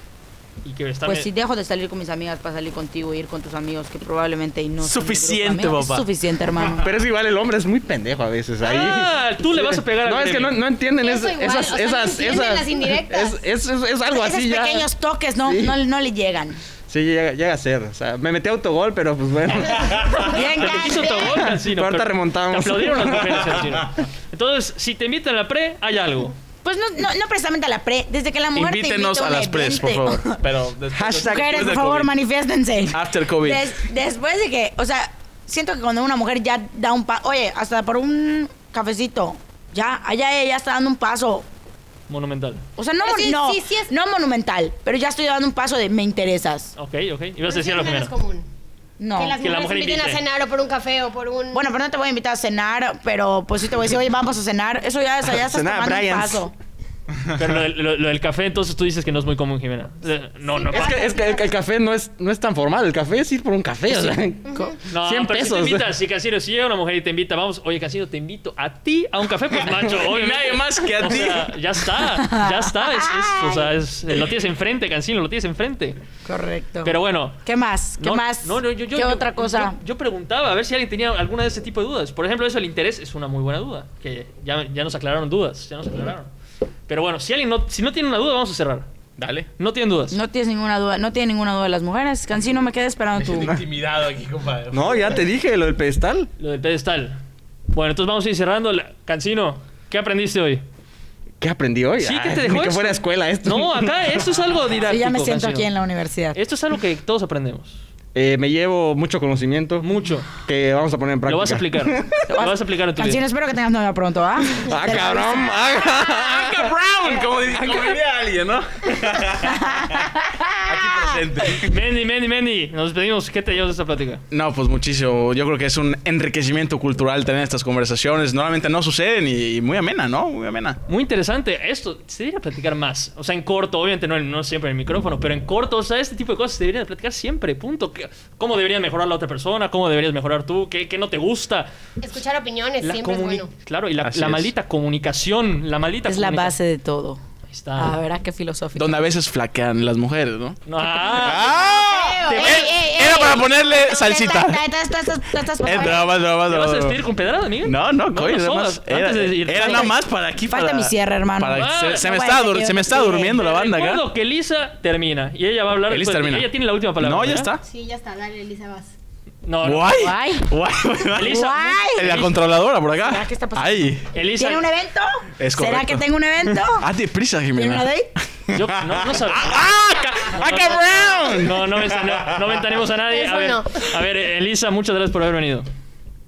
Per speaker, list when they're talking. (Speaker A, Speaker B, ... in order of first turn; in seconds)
Speaker A: 0.6-1.3, 8.6-10.6, 20.3-26.4, 42.1-42.6, 46.8-48.1, 49.4-50.2, 57.4-61.0, 64.9-76.0, 76.8-77.4, 78.0-86.3, 86.9-88.9, 89.6-90.2, 96.4-97.2, 97.7-100.6, 102.0-105.7, 106.3-107.8, 109.8-110.3, 111.3-113.2, 121.6-124.2, 130.9-141.7, 142.8-146.6, 147.5-148.0, 150.7-151.5, 152.3-152.7, 156.5-159.9, 161.6-162.1, 163.0-167.5, 169.4-170.1, 171.2-172.3, 174.1-174.7, 178.5-185.7
Speaker B: 1.1-6.9, 14.1-16.6, 20.2-21.4, 26.6-30.4, 31.2-41.5, 42.8-46.7, 49.0-49.4, 51.5-56.5, 63.9-64.7, 72.2-73.7, 76.2-79.8, 90.1-93.6, 104.8-106.4, 112.3-115.7, 119.5-121.2, 146.1-147.2, 147.8-148.9, 150.8-156.1, 159.5-159.9, 160.5-163.4, 169.9-170.5, 171.2-172.3, 173.0-176.9, 177.6-178.1
Speaker C: 4.8-6.1, 28.6-32.1, 32.9-33.7, 69.9-71.5, 89.2-89.5, 93.2-95.2, 116.0-121.7, 124.3-130.8, 144.0-144.5, 148.8-150.6, 151.1-154.6, 155.6-157.0, 157.6-164.0, 165.9-167.6, 169.6-174.1, 175.4-177.9, 178.5-182.3
Speaker D: 6.8-14.9, 15.5-15.8, 16.9-20.2, 21.2-23.8, 30.9-31.9, 55.3-56.4, 60.7-65.9, 94.7-96.3, 101.4-104.1, 108.2-109.9, 110.4-112.2, 114.7-116.7, 117.5-117.9
Speaker E: 11.0-13.4, 20.2-21.2, 43.0-43.9, 47.5-48.5, 49.1-51.7, 60.5-61.5, 64.5-64.8, 142.0-143.5, 167.6-168.9, 183.1-183.9